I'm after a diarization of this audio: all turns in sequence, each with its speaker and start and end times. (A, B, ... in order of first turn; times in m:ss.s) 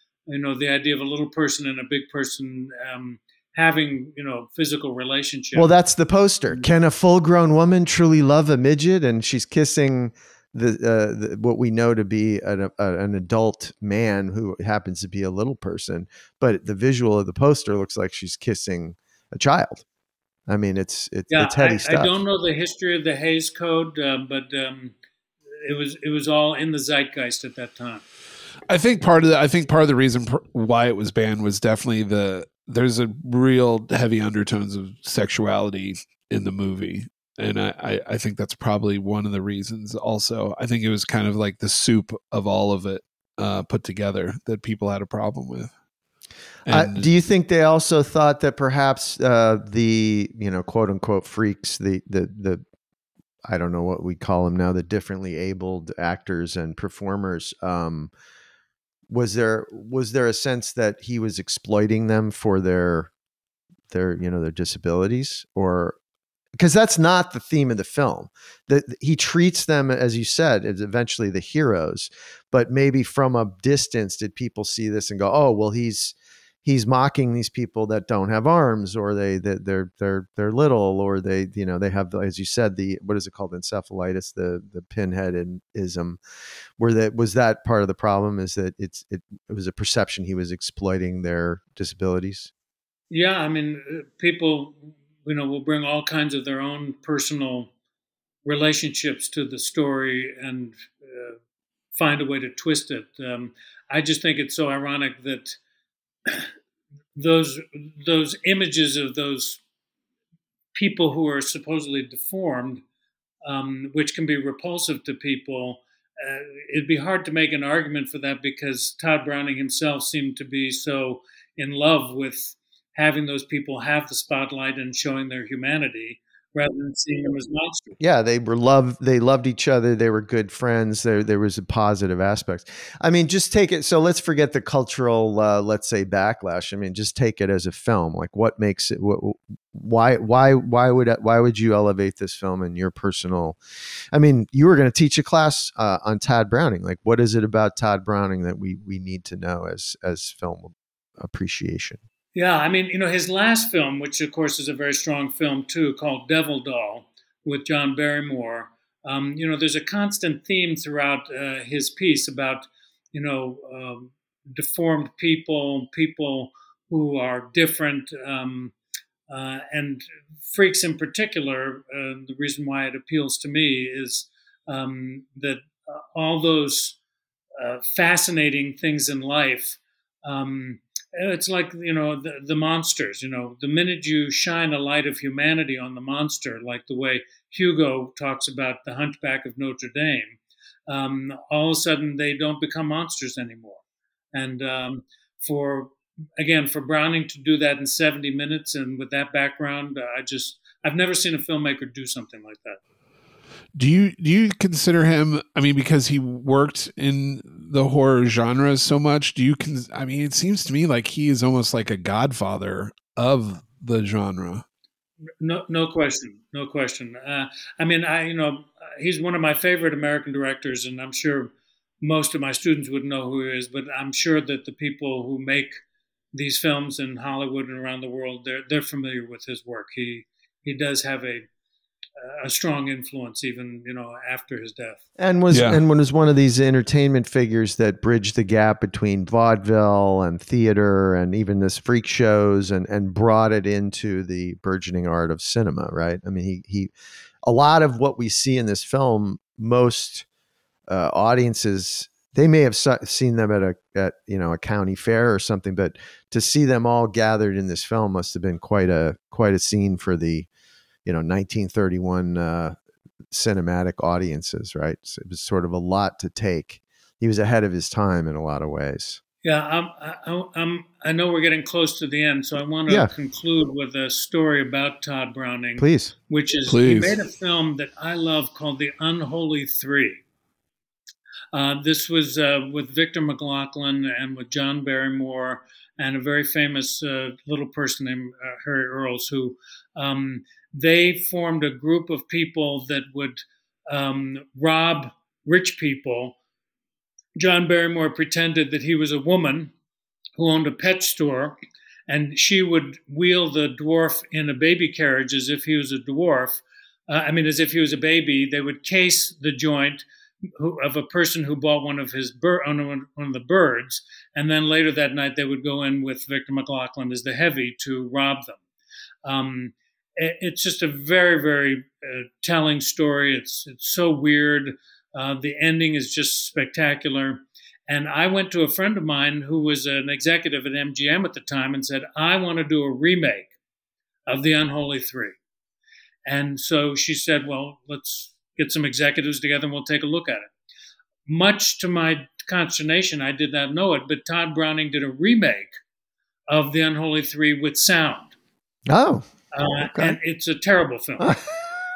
0:00.3-0:05.7 A
0:05.5-0:19.8 B
0:20.5-0:22.1 B
0:21.3-0:25.0 A
0:25.6-0:28.0 A
0:28.7-0:45.7 C
0:46.7-0:47.1 C
0:46.7-0:52.6 B
0:53.5-0:58.1 B
0:59.1-1:03.1 B
1:03.9-1:06.0 B
1:06.6-1:26.2 B
1:26.8-1:32.5 B
1:33.1-1:37.7 A
1:38.4-1:41.4 A
1:41.9-1:45.6 A
1:47.2-1:49.6 A
1:50.7-1:52.8 A
1:53.4-2:08.0 A
2:08.0-2:23.6 B
2:24.1-2:32.0 B
2:32.4-2:48.7 A
2:49.3-2:57.0 A
2:57.6-3:13.8 A
3:14.3-3:22.8 A
3:23.8-3:34.6 C
3:35.4-3:45.8 A
3:46.3-3:51.5 A
3:52.2-3:55.0 A
3:55.2-4:06.9 B
3:55.5-3:55.8 C
4:07.4-4:10.3 B
4:10.9-4:20.5 B
4:21.0-4:22.8 B
4:23.3-4:29.2 B
4:29.4-4:40.2 A
4:35.8-4:36.1 B
4:36.7-4:37.2 C
4:41.5-4:56.4 A
4:57.4-4:59.7 A
5:00.4-5:01.6 A
5:02.1-5:10.0 A
5:10.6-5:18.6 A
5:19.2-5:33.5 A
5:34.3-5:35.4 A
5:36.3-5:40.5 A
5:41.3-5:45.7 A
5:46.5-5:48.4 A
5:48.9-5:50.2 B
5:49.5-5:51.4 A
5:51.2-5:51.5 B